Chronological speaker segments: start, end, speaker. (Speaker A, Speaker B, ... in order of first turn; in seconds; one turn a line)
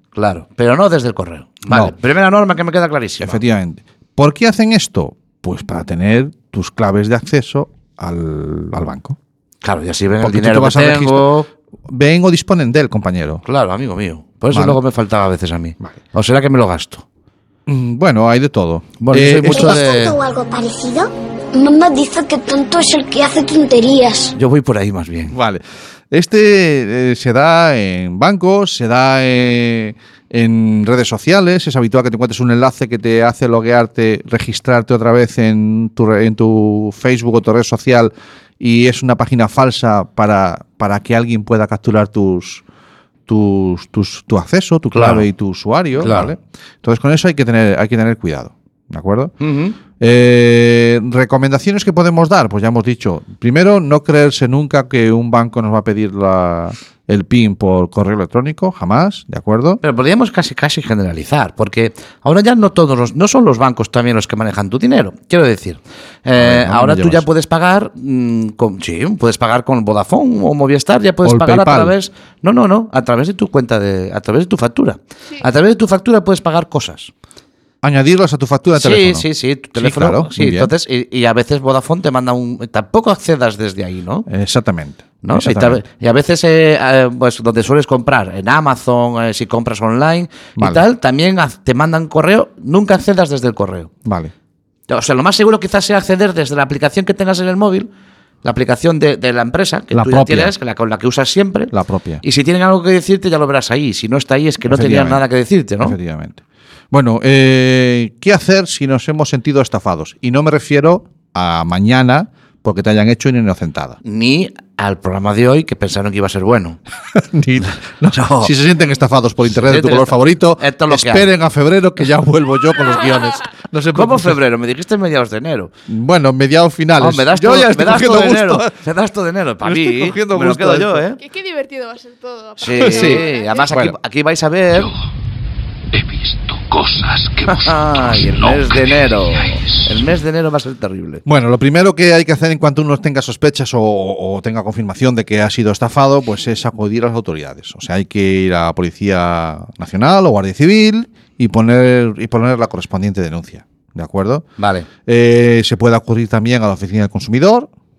Speaker A: 0.1-3.4
Speaker B: 3.2-9.2
Speaker A: 9.6-11.5
Speaker B: 10.2-11.3
Speaker B: 11.9-13.4
Speaker A: 13.4-17.0
Speaker B: 14.5-14.8
Speaker B: 17.6-19.9
Speaker A: 19.0-20.1
Speaker C: 19.4-24.3
Speaker A: 24.3-25.3
Speaker B: 25.3-42.6
Speaker B: 43.3-49.3
Speaker A: 44.9-45.2
Speaker A: 46.0-46.3
Speaker A: 49.4-49.8
Speaker B: 49.9-59.8
Speaker A: 59.8-77.1
Speaker B: 66.3-67.2
Speaker B: 71.2-71.9
Speaker B: 77.8-80.7
Speaker A: 78.7-84.3
Speaker B: 84.3-85.8
Speaker A: 85.2-93.9
Speaker B: 90.5-90.8
Speaker B: 94.0-94.3
Speaker A: 94.9-97.9
Speaker A: 98.4-101.7
Speaker B: 99.9-100.5
Speaker B: 101.7-102.2
Speaker A: 102.2-106.0
Speaker B: 104.6-105.2
Speaker B: 105.8-114.0
Speaker A: 114.0-116.8
Speaker B: 117.2-124.4
Speaker A: 118.1-118.5
Speaker A: 119.5-121.3
Speaker A: 123.9-125.7
Speaker B: 125.9-128.7
Speaker A: 127.0-131.2
Speaker B: 129.6-131.1
Speaker D: 131.2-133.7
Speaker A: 132.6-134.9
Speaker B: 132.8-133.9
Speaker E: 136.0-137.7
Speaker A: 137.4-141.2
Speaker E: 138.2-138.8
Speaker B: 141.2-154.4
Speaker A: 154.6-154.9
Speaker B: 155.1-157.7